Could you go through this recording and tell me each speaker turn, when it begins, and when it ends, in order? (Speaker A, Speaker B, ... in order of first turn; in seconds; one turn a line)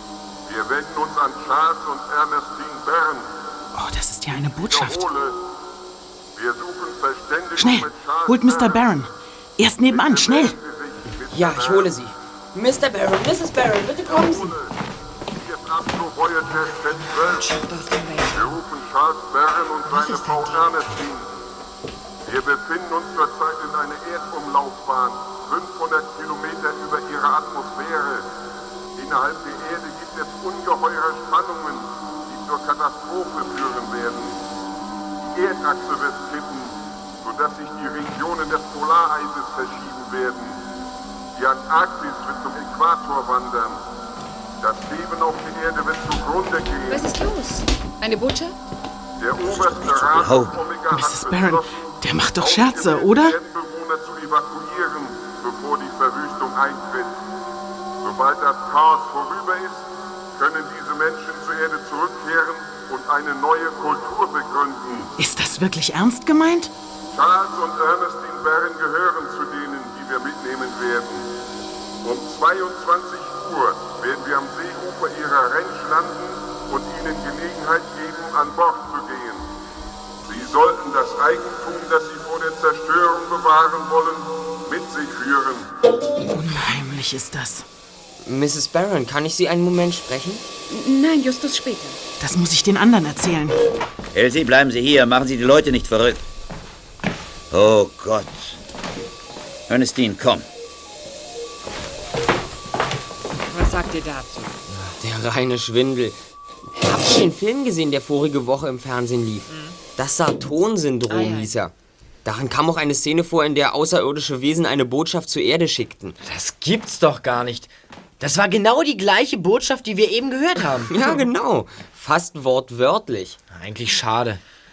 Speaker A: 0.5-3.3
Speaker B: 3.7-5.0
Speaker A: 4.5-5.4
Speaker A: 6.3-9.0
Speaker B: 7.6-10.6
Speaker A: 9.7-11.9
Speaker C: 11.3-14.5
Speaker A: 14.1-14.7
Speaker A: 15.3-17.5
Speaker D: 17.0-18.6
Speaker A: 18.3-21.3
Speaker D: 19.9-20.7
Speaker A: 22.2-28.3
Speaker A: 28.9-34.4
Speaker A: 35.3-40.7
Speaker A: 41.3-43.8
Speaker A: 44.6-47.1
Speaker E: 46.9-48.6
Speaker A: 49.2-57.2
Speaker F: 49.4-50.6
Speaker B: 50.9-53.4
Speaker A: 58.0-65.1
Speaker B: 65.2-66.7
Speaker A: 67.1-71.3
Speaker A: 72.0-79.4
Speaker A: 80.2-85.7
Speaker B: 86.3-87.7
Speaker C: 88.2-90.4
Speaker E: 90.7-92.0
Speaker B: 92.2-93.5
Speaker F: 94.1-96.2
Speaker F: 97.5-98.6
Speaker F: 99.7-100.5
Speaker D: 103.5-104.6
Speaker C: 105.0-106.2
Speaker C: 106.8-109.5
Speaker D: 109.5-109.8
Speaker C: 110.0-111.7
Speaker D: 111.1-111.5
Speaker C: 112.2-116.2
Speaker G: 116.2-121.1
Speaker C: 120.9-123.4
Speaker G: 123.5-124.4